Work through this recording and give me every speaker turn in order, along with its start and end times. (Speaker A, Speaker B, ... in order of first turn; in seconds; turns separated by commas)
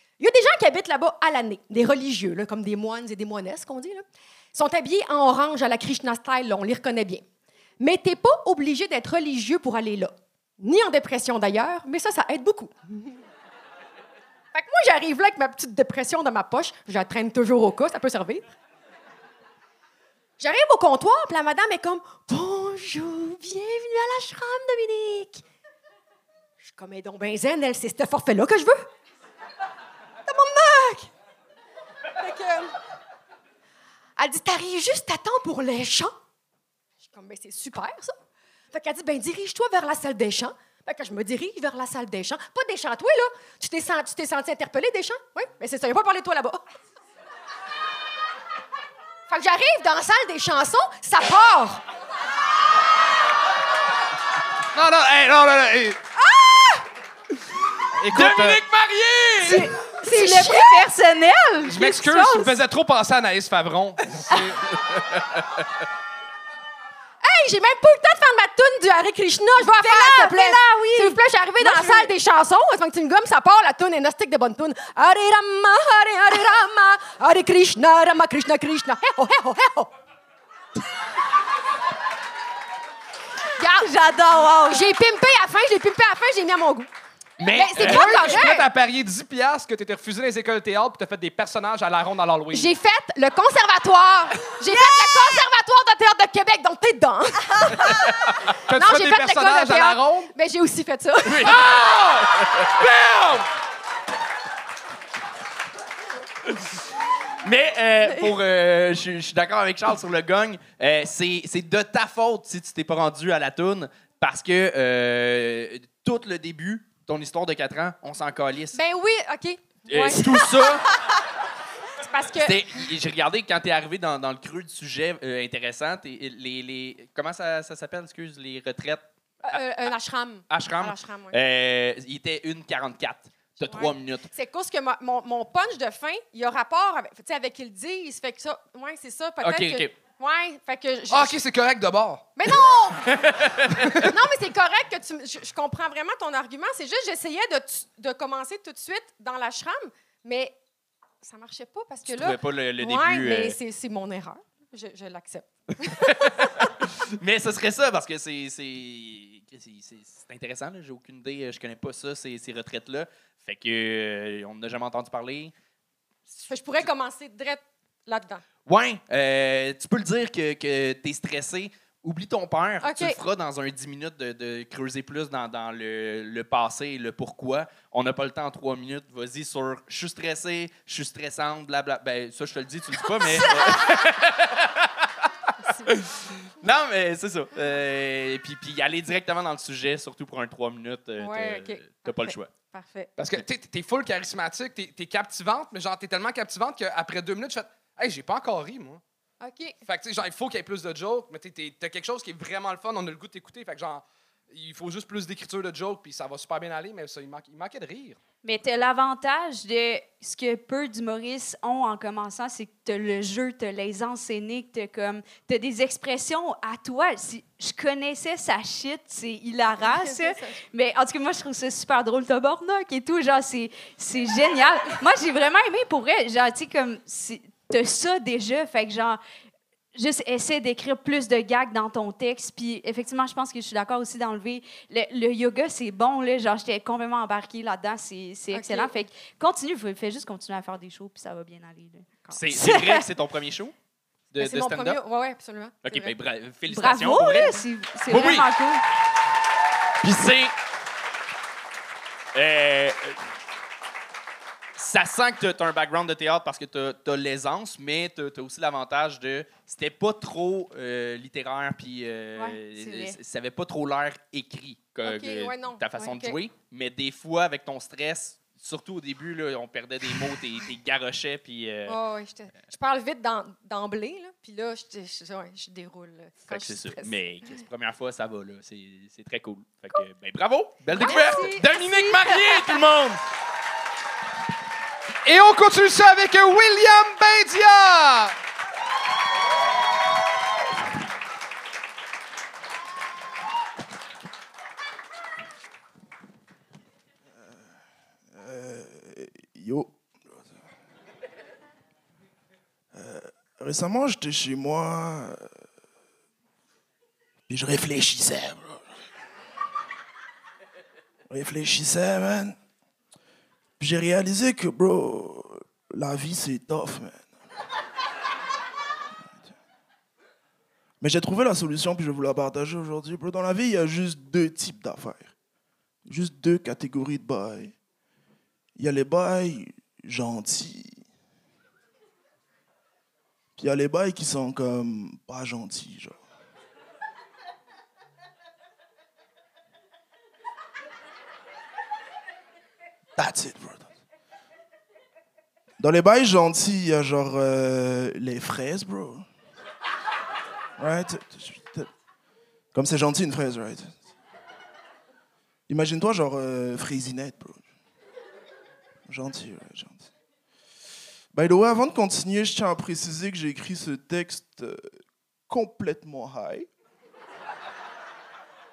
Speaker A: 0.2-4.0, Speaker A: 4.5-7.2, Speaker A: 7.8-13.2, Speaker A: 14.5-18.5, Speaker A: 20.4-25.4, Speaker A: 26.6-28.9, Speaker A: 30.2-31.1, Speaker A: 32.2-32.7, Speaker A: 34.2-36.1, Speaker A: 37.0-38.2, Speaker A: 38.7-46.7, Speaker A: 49.3-51.8, Speaker B: 54.7-56.0, Speaker B: 58.0-59.7, Speaker C: 58.3-58.6, Speaker D: 59.4-62.5, Speaker A: 60.0-60.9, Speaker B: 61.6-64.7, Speaker A: 67.2-79.9, Speaker D: 69.6-72.1, Speaker A: 83.6-83.9, Speaker D: 83.7-84.8, Speaker A: 84.7-86.9, Speaker C: 87.4-88.4, Speaker B: 87.5-92.7, Speaker A: 87.5-88.7, Speaker A: 92.5-101.6, Speaker B: 98.7-100.3, Speaker B: 101.4-103.5, Speaker C: 102.4-102.7, Speaker C: 107.4-118.8, Speaker A: 118.7-121.0, Speaker C: 119.9-120.9, Speaker A: 122.0-122.9, Speaker C: 122.3-129.6, Speaker A: 129.4-131.4, Speaker C: 130.5-134.3, Speaker A: 133.6-141.4, Speaker C: 139.4-139.9, Speaker B: 141.1-142.3, Speaker A: 142.4-150.6, Speaker C: 143.1-143.7, Speaker A: 151.2-156.7, Speaker C: 152.1-153.6, Speaker C: 157.0-165.5, Speaker C: 166.3-166.9, Speaker A: 166.5-168.4, Speaker C: 168.7-185.1, Speaker A: 172.8-173.2, Speaker A: 183.3-183.7, Speaker A: 185.6-185.9, Speaker C: 185.8-192.5, Speaker A: 191.2-193.1, Speaker B: 193.2-199.0, Speaker A: 199.4-199.8, Speaker B: 199.8-208.2, Speaker D: 208.4-229.2, Speaker A: 219.8-220.6, Speaker D: 229.9-243.0, Speaker A: 238.5-239.0, Speaker C: 242.3-243.7, Speaker C: 244.3-245.0, Speaker A: 244.4-246.1, Speaker C: 245.8-248.5, Speaker D: 246.7-248.8, Speaker C: 250.0-250.5, Speaker C: 252.3-253.2, Speaker C: 254.8-272.0, Speaker D: 262.3-263.2, Speaker A: 265.0-266.4, Speaker A: 271.9-277.5, Speaker C: 276.5-283.2, Speaker A: 280.9-282.1, Speaker D: 281.0-282.6, Speaker B: 285.2-288.3, Speaker E: 298.3-300.6, Speaker E: 302.9-305.5, Speaker E: 307.5-308.9, Speaker E: 311.3-312.6, Speaker E: 313.8-317.2, Speaker E: 321.0-325.3, Speaker E: 326.1-327.7, Speaker E: 328.8-331.0, Speaker E: 333.6-336.2, Speaker E: 343.2-343.9, Speaker E: 345.8-349.2, Speaker E: 350.8-351.9, Speaker E: 352.7-353.9, Speaker E: 355.7-357.6, Speaker E: 359.1-360.1, Speaker E: 361.3-364.8, Speaker E: 365.5-366.7